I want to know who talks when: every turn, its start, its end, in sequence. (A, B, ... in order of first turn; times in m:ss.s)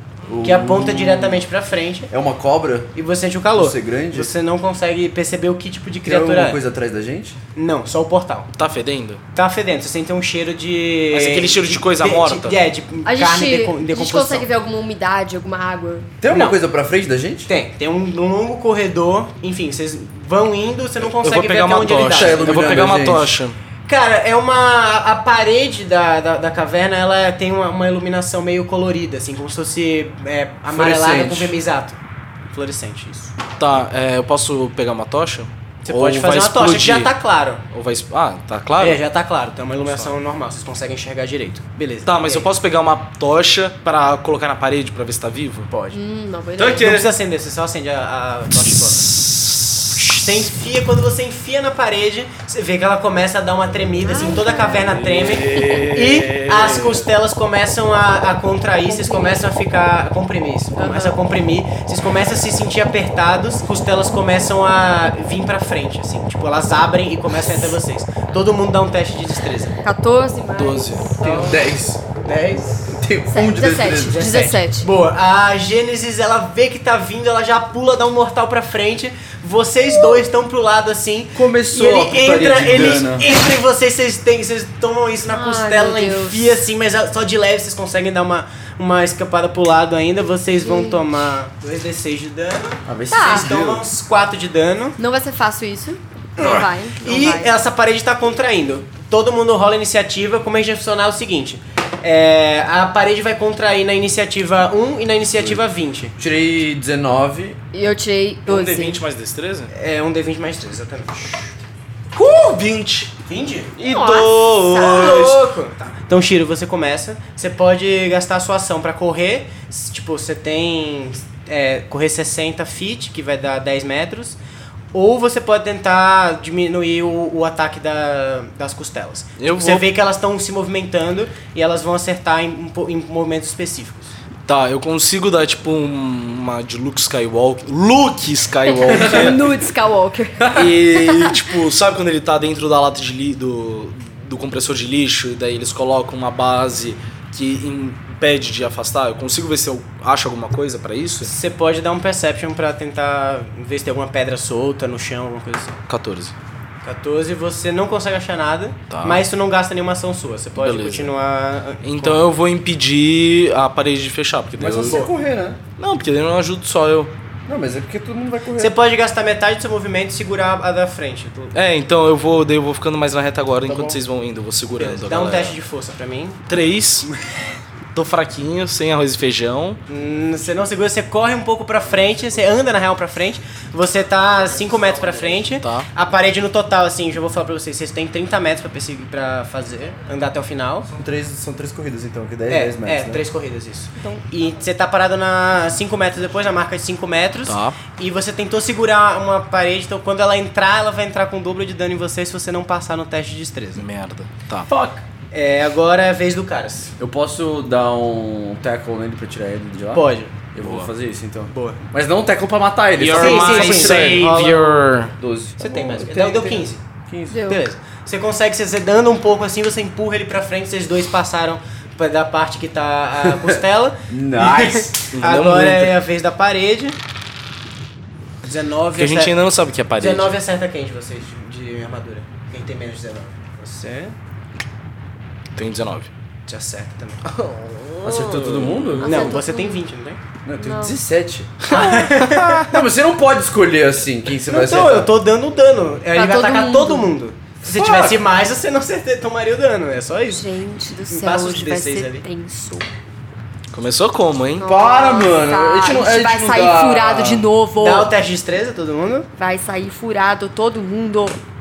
0:00.2-0:01.4 A
0:00.4-0:02.1 B
0:02.1-0:02.9 A
0:02.9-0:06.6 B
0:03.5-0:04.3 A
0:06.0-0:07.4 A
0:07.5-0:08.5 B
0:08.6-0:09.2 C
0:09.3-0:14.5 B
0:11.1-0:12.6 C
0:13.0-0:16.1 D
0:16.2-0:17.5 A
0:16.3-0:16.6 B
0:17.5-0:22.5 B
0:21.2-0:23.6 C
0:22.0-0:23.3 A
0:23.9-0:32.0 B
0:30.7-0:31.5 A
0:32.5-0:33.3 B
0:33.6-0:37.1 C
0:35.8-0:37.6 B
0:37.7-0:39.0 C
0:38.8-0:42.5 B
0:42.0-0:45.7 C
0:45.7-0:46.0 B
0:45.9-0:47.0 D
0:46.6-0:47.1 C
0:46.6-0:49.1 B
0:49.9-1:09.8 B
0:54.0-0:54.9 D
0:54.9-0:57.0 C
0:58.9-0:59.4 D
1:00.8-1:01.2 D
1:09.8-1:11.6 D
1:10.6-1:11.4 C
1:11.2-1:12.0 A
1:12.2-1:13.0 B
1:12.8-1:14.4 A
1:13.3-1:14.9 D
1:14.1-1:35.0 B
1:21.3-1:23.3 A
1:25.3-1:26.6 D
1:30.6-1:31.0 D
1:32.8-1:33.8 A
1:33.1-1:33.5 D
1:35.0-1:37.5 D
1:36.4-1:46.1 B
1:46.2-1:47.6 A
1:47.7-1:49.0 D
1:48.4-1:49.7 C
1:49.7-1:51.6 B
1:52.1-1:53.1 C
1:53.3-1:53.7 B
1:53.8-1:55.4 C
1:53.8-1:55.3 D
1:54.8-2:04.4 B
2:04.9-2:14.1 B
2:09.4-2:09.8 C
2:14.4-2:19.4 C
2:18.7-2:21.4 D
2:20.5-2:31.3 C
2:31.2-2:35.8 B
2:35.9-2:36.3 C
2:36.8-2:42.2 B
2:38.9-2:39.2 C
2:40.6-2:41.1 C
2:41.8-2:45.0 C
2:44.6-2:45.6 A
2:44.8-2:45.1 B
2:45.8-2:47.1 C
2:47.5-2:48.7 A
2:48.6-2:51.5 B
2:51.5-2:55.6 C
2:53.7-2:54.0 A
2:54.8-2:56.4 B
2:56.5-2:57.1 C
2:57.9-2:59.8 C
2:59.9-3:10.9 B
3:05.4-3:05.9 C
3:10.9-3:13.2 A
3:12.5-3:23.8 B
3:14.0-3:14.3 D
3:17.4-3:17.8 C
3:23.8-3:24.7 C
3:24.7-3:26.9 B
3:27.0-3:37.5 A
3:29.9-3:30.3 B
3:30.6-3:30.9 C
3:31.5-3:31.8 B
3:33.0-3:35.1 C
3:33.1-3:34.3 B
3:35.6-3:36.8 B
3:37.3-3:37.6 D
3:37.5-3:47.0 B
3:43.2-3:44.9 A
3:45.1-3:46.0 C
3:48.4-3:49.3 B
3:49.0-3:50.4 C
3:50.0-3:54.1 B
3:55.6-3:56.1 C
3:56.5-3:57.2 B
3:57.3-3:59.1 C
3:58.0-3:59.3 A
3:59.0-3:59.8 D
3:59.0-4:00.2 B
4:00.4-4:05.1 A
4:00.6-4:01.0 D
4:01.6-4:02.7 B
4:01.7-4:02.7 C
4:04.4-4:10.4 B
4:06.1-4:07.1 D
4:10.3-4:12.9 D
4:11.1-4:12.2 B
4:13.7-4:14.6 C
4:14.6-4:18.1 D
4:14.6-4:17.5 A
4:17.8-4:19.3 B
4:19.4-4:21.4 D